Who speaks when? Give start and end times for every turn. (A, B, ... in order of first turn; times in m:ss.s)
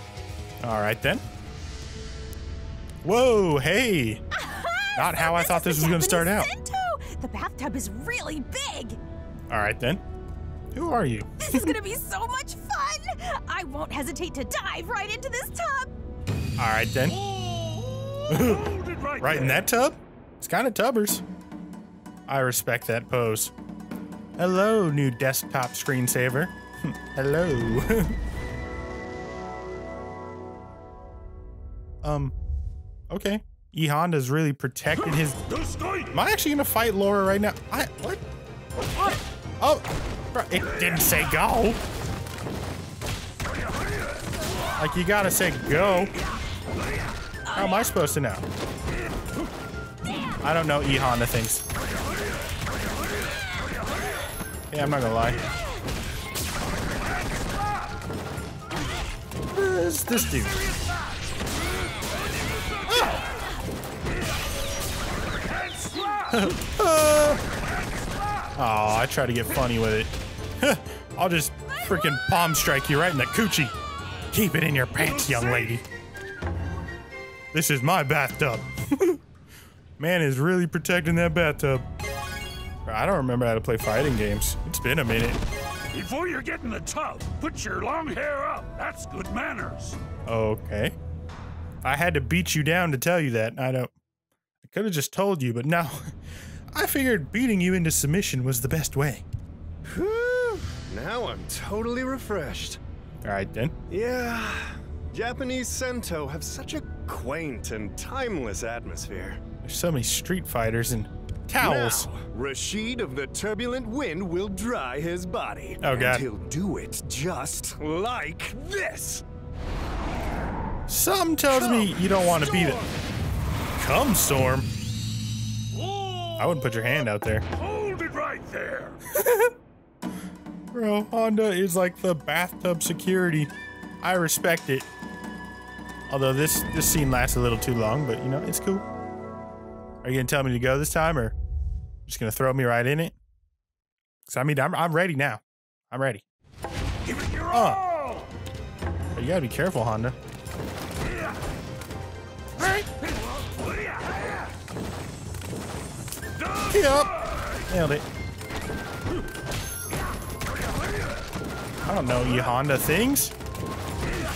0:00.6-0:01.2 A
0:03.0-0:04.2 A
0:04.4-0:09.0 B
0:04.9-0:06.5 A
0:09.5-0:10.0 A
0:10.7-0:11.8 A
0:11.4-0:15.9 B
0:16.6-0:17.2 A
0:17.3-0:19.6 C
0:18.3-0:21.2 A
0:22.3-0:23.5 A
0:24.4-0:28.2 A
0:32.0-0:32.3 A
0:33.1-0:35.4 A
0:35.5-0:36.1 C
0:36.1-0:38.2 A
0:39.0-0:41.8 A
0:44.8-0:46.2 A
0:47.5-0:48.4 A
0:50.4-0:51.6 A
0:54.7-0:55.4 A
0:57.2-0:57.9 C
0:59.5-1:00.6 A
1:00.1-1:01.4 C
1:02.0-1:03.4 C
1:02.9-1:03.2 A
1:05.4-1:06.6 C
1:06.3-1:07.4 A
1:07.6-1:08.5 C
1:08.5-1:13.7 A
1:14.3-1:15.8 A
1:15.0-1:15.7 C
1:17.5-1:19.2 A
1:20.0-1:21.8 A
1:22.8-1:25.4 A
1:25.9-1:30.0 C
1:30.2-1:31.0 A
1:31.8-1:33.9 A
1:34.6-1:36.1 A
1:36.7-1:39.2 A
1:39.8-1:42.8 D
1:43.2-1:43.7 A
1:43.9-1:49.4 D
1:49.6-1:52.1 A
1:51.6-1:59.2 D
1:55.8-1:56.2 A
2:00.9-2:02.8 A
2:03.8-2:04.7 A
2:05.8-2:06.7 C
2:06.4-2:07.4 A
2:07.5-2:09.0 C
2:09.1-2:09.5 A
2:10.7-2:13.5 A
2:14.0-2:14.9 A
2:16.1-2:18.8 A
2:20.0-2:21.3 A
2:22.0-2:23.2 A
2:24.3-2:26.2 A
2:27.0-2:28.3 C
2:27.5-2:27.8 A
2:29.1-2:30.1 A
2:32.6-2:32.9 A
2:33.0-2:34.4 C
2:36.4-2:37.6 C
2:36.7-2:38.0 A
2:41.8-2:43.3 A